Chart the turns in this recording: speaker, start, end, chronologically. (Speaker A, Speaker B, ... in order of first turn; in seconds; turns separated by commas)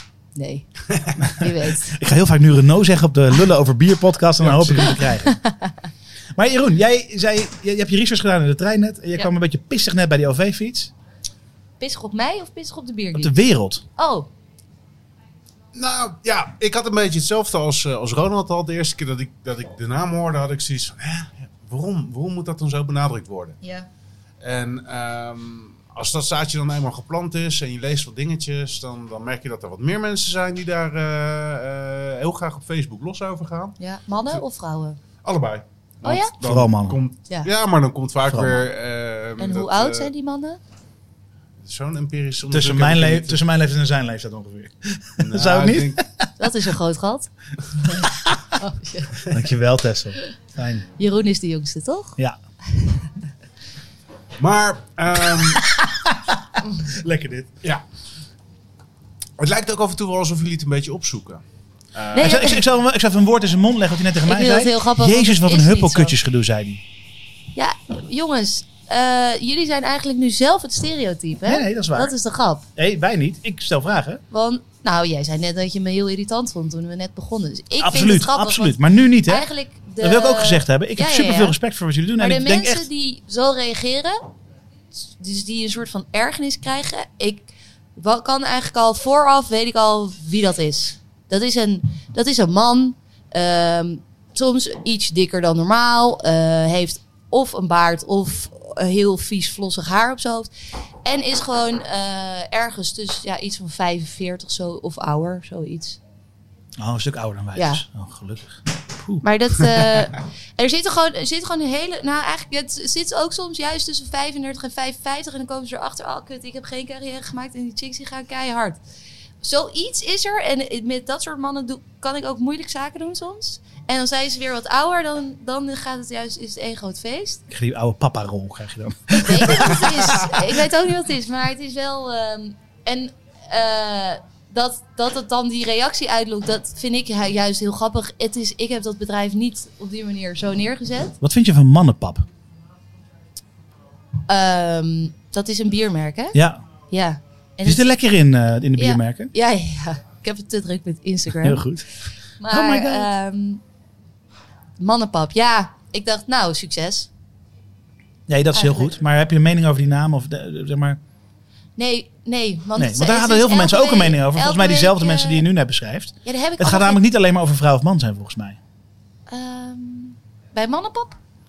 Speaker A: 0.3-2.0, Speaker B: 1.9-5.4, Speaker C: 4.4-5.0, Speaker A: 5.0-5.7, Speaker B: 6.3-10.9, Speaker A: 11.8-13.4, Speaker B: 13.1-13.8, Speaker A: 14.0-14.3, Speaker C: 15.7-23.6, Speaker A: 23.6-23.9, Speaker C: 24.4-33.8, Speaker A: 33.8-35.0, Speaker C: 35.2-40.1, Speaker A: 36.0-36.3, Speaker B: 36.4-37.0, Speaker B: 38.3-38.6, Speaker A: 39.4-40.6, Speaker C: 41.6-43.4, Speaker B: 42.5-46.3, Speaker C: 45.2-46.0, Speaker A: 46.4-49.3, Speaker B: 47.8-48.5, Speaker B: 49.3-50.9, Speaker A: 51.0-52.2, Speaker C: 54.4-55.6, Speaker B: 55.7-57.6, Speaker C: 59.4-61.4, Speaker C: 61.9-62.5, Speaker A: 62.1-62.6, Speaker B: 62.2-66.8, Speaker A: 64.2-66.1, Speaker A: 67.5-72.7, Speaker B: 71.5-72.1, Speaker B: 72.8-74.2, Speaker A: 74.3-81.6, Speaker B: 77.8-79.5, Speaker B: 80.0-82.8, Speaker A: 82.2-84.2, Speaker A: 85.0-100.5, Speaker A: 101.0-106.0, Speaker B: 106.8-109.2, Speaker A: 107.5-107.8, Speaker A: 109.2-118.8, Speaker A: 119.4-127.4, Speaker B: 127.5-130.2, Speaker A: 129.1-141.2, Speaker B: 141.2-142.3, Speaker A: 144.3-146.3, Speaker B: 146.3-146.6, Speaker A: 146.9-147.9, Speaker B: 147.6-149.3, Speaker A: 148.8-151.7, Speaker B: 151.4-153.1, Speaker A: 152.4-153.6, Speaker A: 154.8-157.1, Speaker B: 158.3-161.0, Speaker A: 158.5-158.9, Speaker A: 161.8-165.5, Speaker B: 162.8-168.6, Speaker A: 166.2-167.0, Speaker A: 169.3-171.2